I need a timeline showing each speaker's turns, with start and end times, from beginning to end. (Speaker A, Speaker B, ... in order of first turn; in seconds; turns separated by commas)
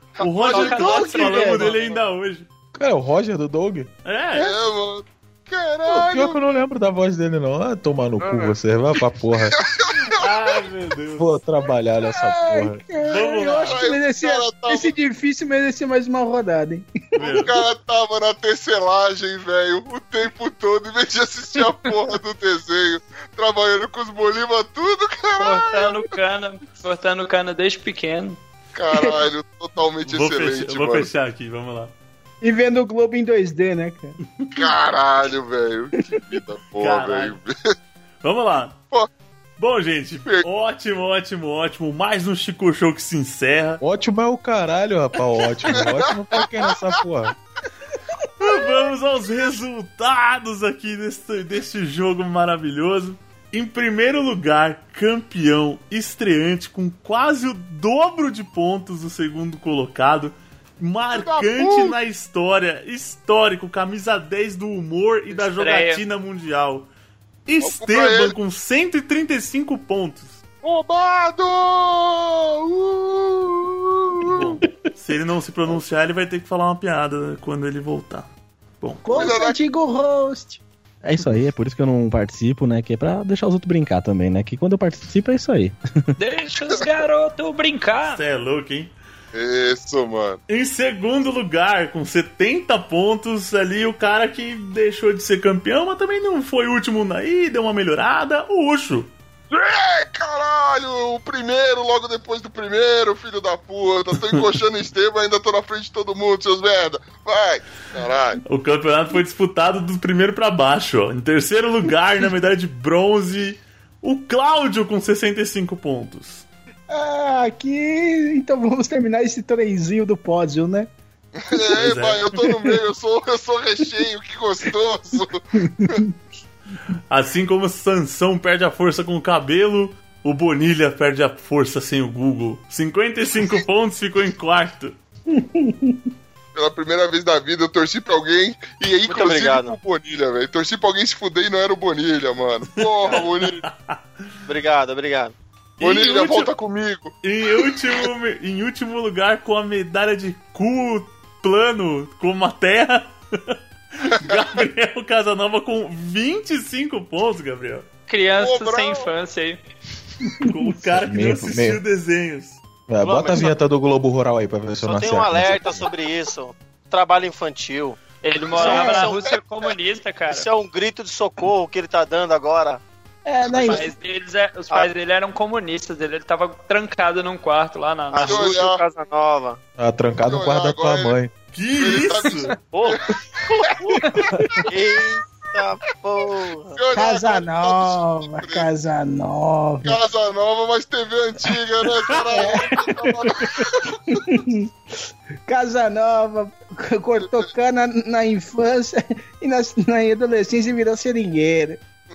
Speaker A: 0.2-2.5, Speaker B: 0.3-1.5, Speaker C: 0.5-1.8, Speaker D: 1.3-1.7, Speaker E: 2.7-3.9, Speaker A: 4.0-4.5, Speaker B: 4.3-6.4, Speaker E: 5.9-9.5, Speaker B: 10.1-10.3, Speaker A: 10.1-11.3, Speaker E: 11.2-12.8, Speaker D: 12.2-17.5, Speaker A: 13.1-13.8, Speaker B: 13.6-14.9, Speaker A: 17.1-17.5, Speaker B: 17.2-26.0, Speaker C: 25.4-28.4, Speaker B: 28.7-31.1, Speaker A: 30.0-31.9, Speaker D: 32.4-34.1, Speaker B: 34.5-37.5, Speaker A: 36.8-37.4, Speaker A: 38.2-38.8, Speaker A: 39.6-43.8, Speaker E: 43.8-47.3, Speaker B: 45.7-47.0, Speaker A: 48.4-66.9, Speaker B: 61.1-61.9, Speaker C: 65.3-66.0, Speaker A: 67.5-70.4, Speaker B: 67.6-68.3, Speaker B: 70.6-74.4, Speaker A: 74.3-78.3, Speaker A: 78.8-79.3, Speaker D: 79.0-80.6, Speaker B: 79.1-79.6, Speaker F: 81.0-85.8, Speaker C: 86.2-88.2, Speaker A: 88.1-88.9, Speaker B: 89.3-90.4, Speaker A: 90.5-99.1, Speaker B: 99.5-108.4, Speaker A: 108.4-116.5, Speaker D: 116.9-120.9, Speaker B: 121.5-125.4, Speaker A: 121.8-122.2, Speaker D: 122.4-122.7, Speaker D: 125.6-126.1, Speaker A: 127.1-134.9, Speaker B: 136.5-143.6, Speaker G: 139.1-139.7, Speaker A: 143.0-144.0, Speaker G: 144.5-145.3, Speaker A: 145.8-146.5, Speaker B: 145.8-147.1, Speaker A: 147.2-157.8, Speaker B: 154.2-154.4, Speaker C: 158.1-159.6, Speaker B: 158.3-159.1, Speaker A: 160.3-162.6, Speaker E: 161.0-161.8, Speaker E: 162.9-165.9, Speaker G: 163.0-163.5, Speaker G: 164.8-168.0, Speaker C: 168.2-170.5, Speaker G: 168.5-169.3, Speaker D: 168.6-169.0, Speaker G: 170.3-172.8, Speaker D: 173.2-173.9, Speaker G: 173.5-173.8, Speaker C: 173.5-178.5, Speaker G: 178.1-179.6, Speaker B: 178.2-178.8, Speaker E: 179.8-181.3, Speaker B: 180.2-181.2, Speaker A: 181.5-182.5, Speaker B: 181.8-183.1, Speaker B: 183.6-184.0, Speaker G: 184.7-186.8, Speaker B: 186.7-188.7, Speaker D: 186.9-189.9, Speaker B: 189.8-193.9, Speaker D: 192.3-193.6, Speaker D: 194.1-194.7, Speaker D: 195.5-201.8